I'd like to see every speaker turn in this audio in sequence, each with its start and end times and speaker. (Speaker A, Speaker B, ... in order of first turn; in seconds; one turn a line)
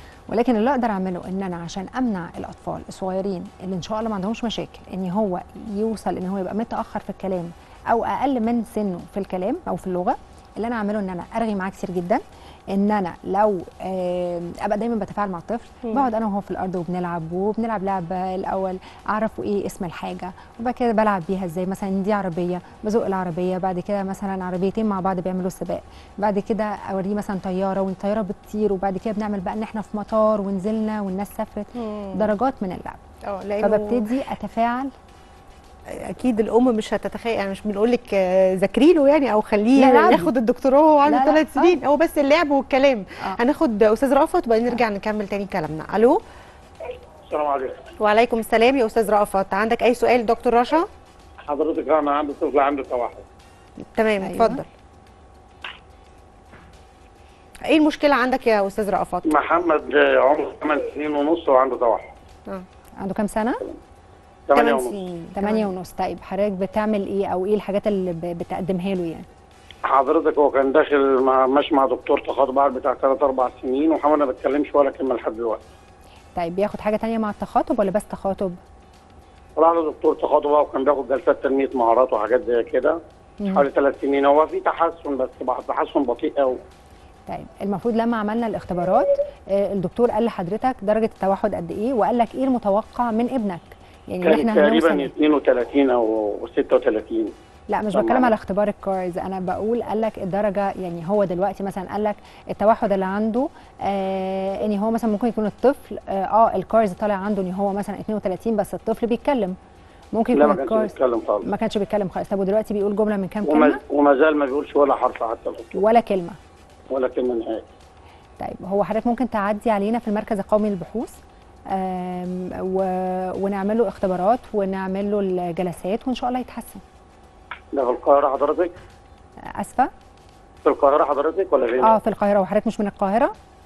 Speaker A: 0.3-33.0
Speaker B: 31.8-32.3
Speaker B: 33.2-34.1
Speaker A: 33.6-34.9
Speaker B: 35.9-46.2
Speaker A: 39.8-40.3
Speaker A: 41.0-41.8
Speaker C: 47.3-47.8
Speaker B: 48.0-50.9
Speaker C: 51.5-53.2
Speaker B: 53.9-54.7
Speaker A: 54.2-54.6
Speaker B: 57.7-59.3
Speaker C: 59.3-62.1
Speaker A: 63.0-63.6
Speaker C: 64.5-65.0
Speaker B: 64.5-65.7
Speaker A: 65.3-69.3
Speaker C: 69.9-75.6
Speaker A: 76.3-78.6
Speaker C: 79.6-83.0
Speaker C: 83.5-86.6
Speaker A: 87.3-95.1
Speaker C: 94.2-97.3
Speaker A: 97.7-109.5
Speaker C: 97.9-98.3
Speaker A: 110.1-113.8
Speaker C: 110.3-111.5
Speaker C: 113.5-115.8
Speaker A: 115.7-116.4
Speaker C: 116.9-117.6
Speaker A: 118.4-121.2
Speaker A: 121.7-126.8
Speaker C: 127.7-128.7
Speaker A: 129.6-129.9
Speaker C: 130.6-132.0
Speaker A: 131.8-133.3